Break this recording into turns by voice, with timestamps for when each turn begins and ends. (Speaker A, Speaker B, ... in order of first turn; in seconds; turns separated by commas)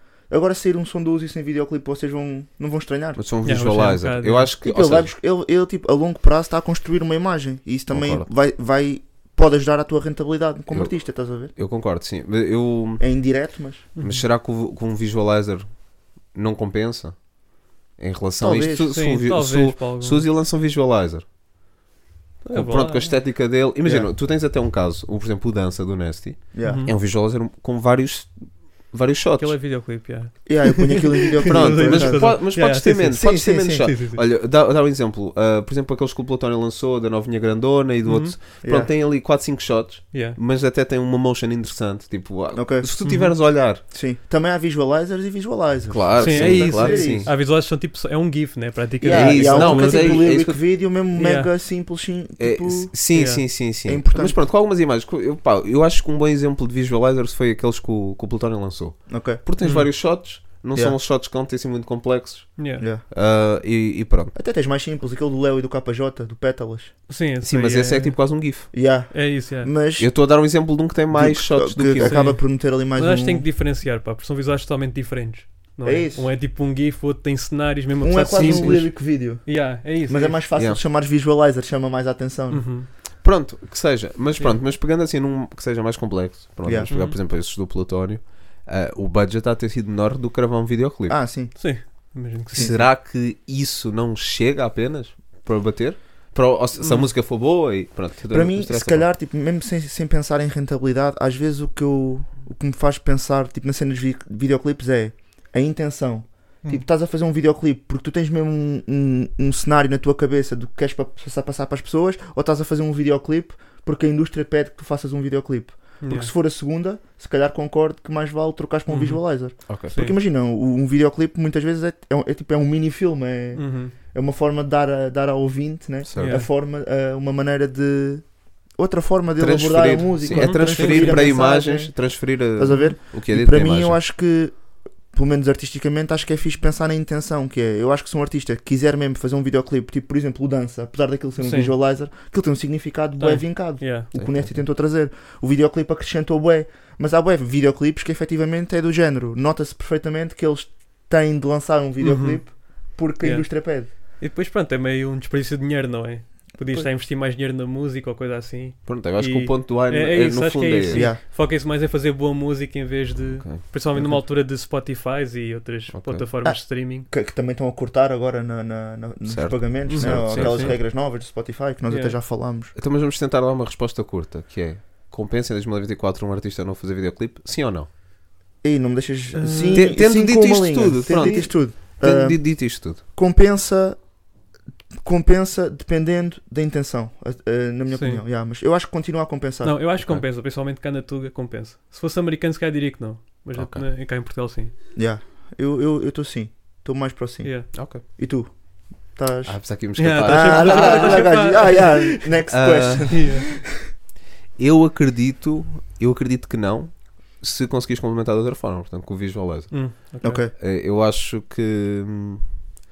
Speaker A: 0.3-3.2, Speaker B: 3.1-5.1, Speaker C: 3.4-4.5, Speaker A: 4.6-11.5, Speaker B: 7.9-8.3, Speaker B: 10.7-13.0, Speaker A: 13.0-13.9, Speaker C: 13.9-14.2, Speaker B: 14.0-17.2, Speaker B: 17.9-21.2, Speaker A: 18.4-18.9, Speaker C: 18.9-20.2, Speaker B: 22.4-29.6, Speaker C: 22.5-23.2, Speaker A: 23.8-24.1, Speaker A: 26.5-26.9, Speaker C: 26.6-26.9, Speaker C: 29.4-34.2, Speaker A: 30.4-32.5, Speaker B: 31.5-43.8, Speaker A: 33.1-33.9, Speaker C: 38.0-38.4, Speaker A: 38.6-38.9, Speaker C: 40.1-40.4, Speaker A: 42.5-42.9, Speaker C: 43.0-43.4, Speaker A: 43.9-47.3, Speaker B: 45.9-47.3, Speaker C: 46.2-50.3, Speaker A: 49.0-52.9, Speaker B: 49.1-50.6, Speaker C: 51.1-51.5, Speaker B: 52.4-64.3, Speaker C: 53.1-53.5, Speaker A: 53.8-54.4, Speaker A: 59.1-59.4, Speaker C: 59.6-59.9, Speaker C: 62.6-62.9, Speaker A: 62.8-63.0, Speaker A: 64.3-66.9, Speaker C: 67.1-68.2, Speaker B: 67.4-68.7, Speaker A: 68.7-70.1, Speaker C: 69.1-69.7, Speaker B: 70.0-72.3, Speaker A: 71.1-73.5, Speaker C: 72.0-80.4, Speaker A: 75.8-76.3, Speaker A: 78.0-82.7, Speaker B: 78.4-78.8, Speaker B: 80.5-80.8, Speaker C: 82.5-82.9, Speaker B: 83.2-91.2, Speaker A: 86.6-86.9, Speaker C: 86.9-87.2, Speaker A: 91.1-92.8, Speaker C: 91.5-92.8, Speaker B: 92.5-99.1, Speaker C: 96.8-97.1, Speaker A: 98.3-153.9, Speaker C: 116.0-116.3, Speaker C: 118.9-120.2, Speaker B: 119.7-119.9, Speaker C: 123.5-123.9, Speaker B: 126.0-126.4, Speaker C: 126.2-126.5, Speaker B: 129.4-134.0, Speaker C: 130.3-131.4, Speaker C: 141.4-141.7, Speaker C: 143.2-144.1, Speaker B: 144.1-144.5, Speaker C: 152.0-167.1, Speaker B: 158.9-161.1, Speaker A: 160.9-161.2, Speaker B: 163.2-163.6, Speaker A: 163.9-164.2, Speaker B: 165.9-166.3, Speaker A: 166.4-172.7, Speaker B: 169.2-170.8, Speaker C: 169.9-170.8, Speaker C: 171.9-172.2, Speaker B: 172.8-177.9, Speaker A: 178.6-184.0, Speaker C: 179.3-179.9, Speaker B: 179.7-183.0, Speaker C: 181.2-181.4, Speaker A: 185.0-189.8, Speaker C: 187.9-188.2, Speaker C: 189.6-194.7, Speaker B: 190.0-190.2, Speaker B: 193.5-193.9, Speaker A: 194.9-198.5, Speaker C: 197.4-197.8, Speaker B: 197.7-198.0, Speaker A: 199.1-203.8, Speaker B: 199.4-201.5, Speaker C: 200.0-202.3, Speaker B: 202.5-203.3, Speaker C: 203.1-203.5, Speaker B: 204.6-209.9, Speaker C: 209.7-210.4, Speaker A: 210.2-210.5, Speaker B: 210.6-212.5